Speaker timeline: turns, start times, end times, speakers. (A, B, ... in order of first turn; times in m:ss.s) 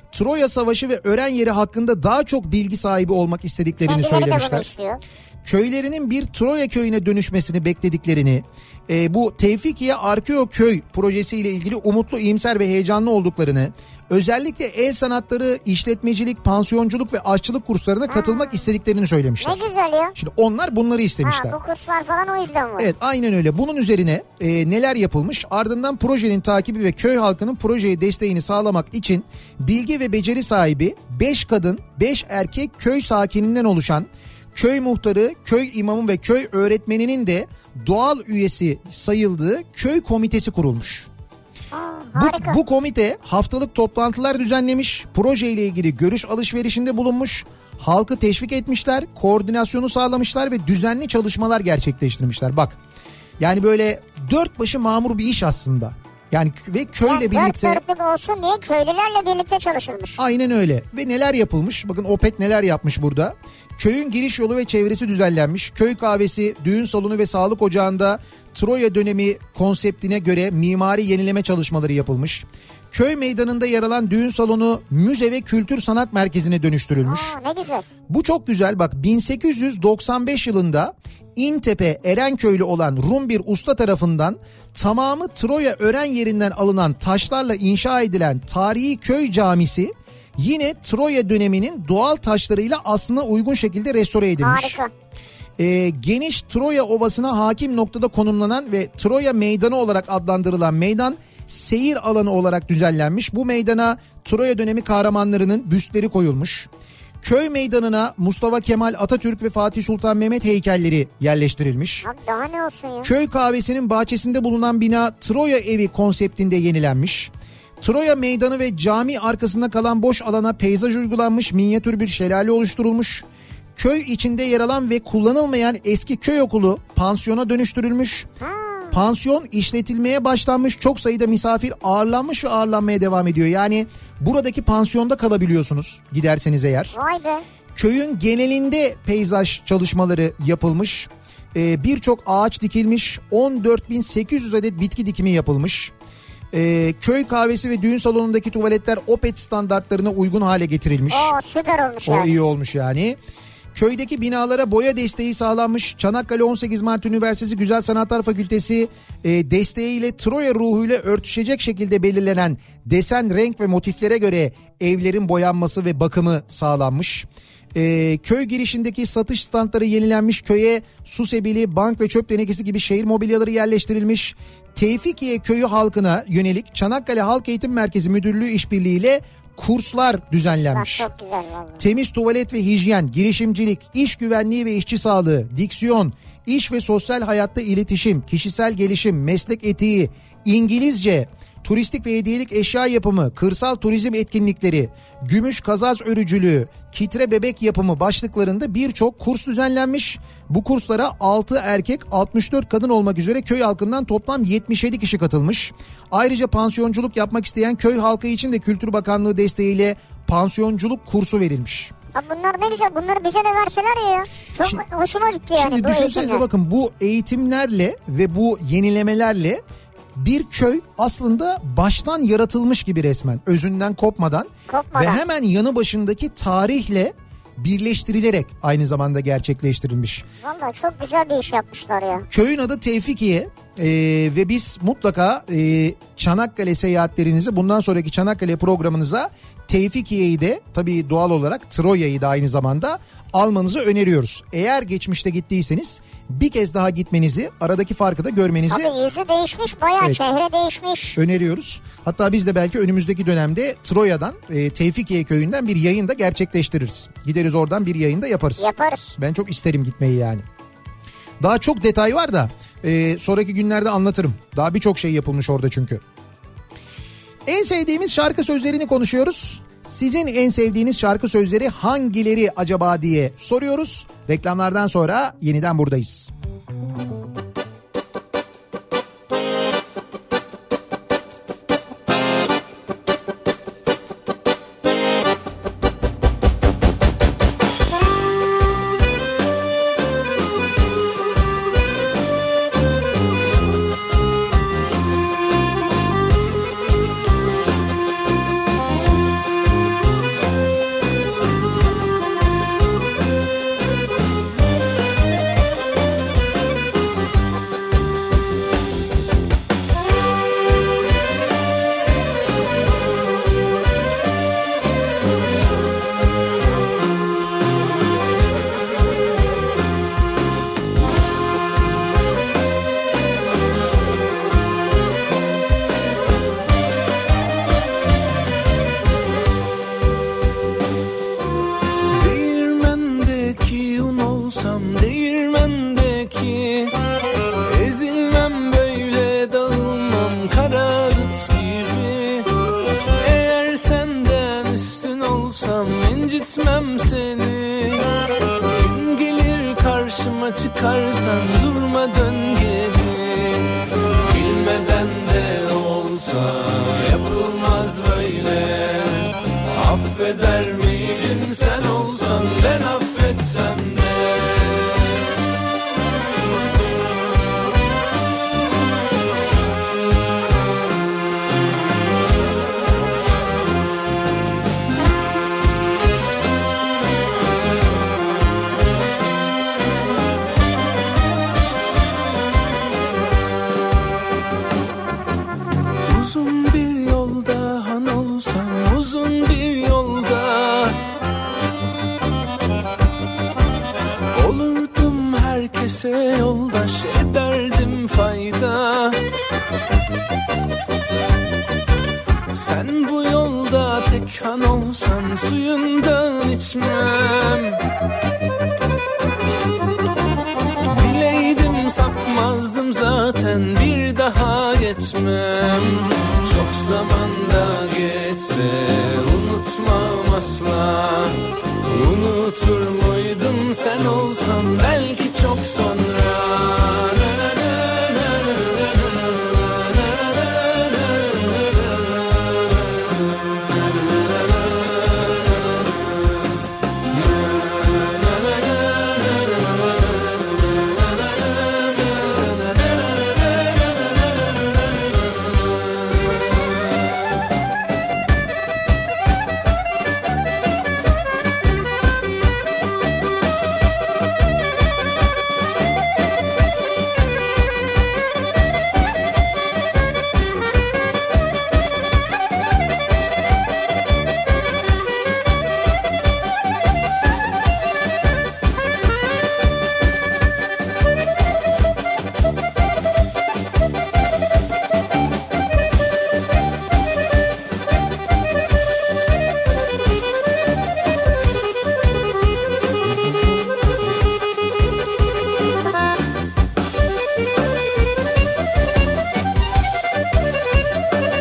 0:00.1-0:04.7 A
0:03.8-0:05.0 B
0:05.4-0:19.6 A
0:18.1-0:18.6 B
0:19.4-0:20.2 B
0:20.2-0:21.6 A
0:21.2-0:22.9 B
0:22.8-0:41.1 A
0:41.7-0:42.6 B
0:42.2-0:52.8 A
0:53.4-0:57.8 A
0:57.1-1:00.2 B
1:00.2-1:17.3 A
1:17.0-1:17.8 B
1:18.1-1:34.8 A
1:34.4-1:34.9 B
1:35.6-1:46.7 A
1:47.2-1:52.0 A
1:52.0-1:53.1 B
1:53.0-2:08.3 A
2:08.4-2:09.0 B
2:08.9-2:17.0 A
2:16.9-2:17.4 B
2:17.7-2:25.9 A
2:26.5-2:31.3 A
2:31.1-2:32.3 B
2:32.0-2:33.2 A
2:33.7-3:01.1 A
3:00.7-3:01.8 B
3:01.8-3:31.9 A
3:32.1-3:36.4 B
3:35.5-3:39.6 A
3:40.2-3:50.2 A
3:44.7-3:45.2 B
3:50.4-3:52.2 B
3:52.3-4:08.9 A
4:08.7-4:11.2 B
4:10.0-4:10.2 A
4:11.1-4:20.4 A
4:18.6-4:19.2 B
4:21.4-4:26.0 A
4:27.4-4:36.3 A
5:32.1-5:36.9 C
5:37.6-5:42.5 C
5:43.2-5:48.0 C
5:48.7-5:53.7 C
5:54.3-6:05.1 C
6:26.0-6:31.0 C
6:34.3-6:39.2 C
6:42.5-6:47.8 C
6:50.9-7:13.0 C
7:13.9-7:15.9 C
7:17.1-7:24.8 C
7:26.0-7:26.8 C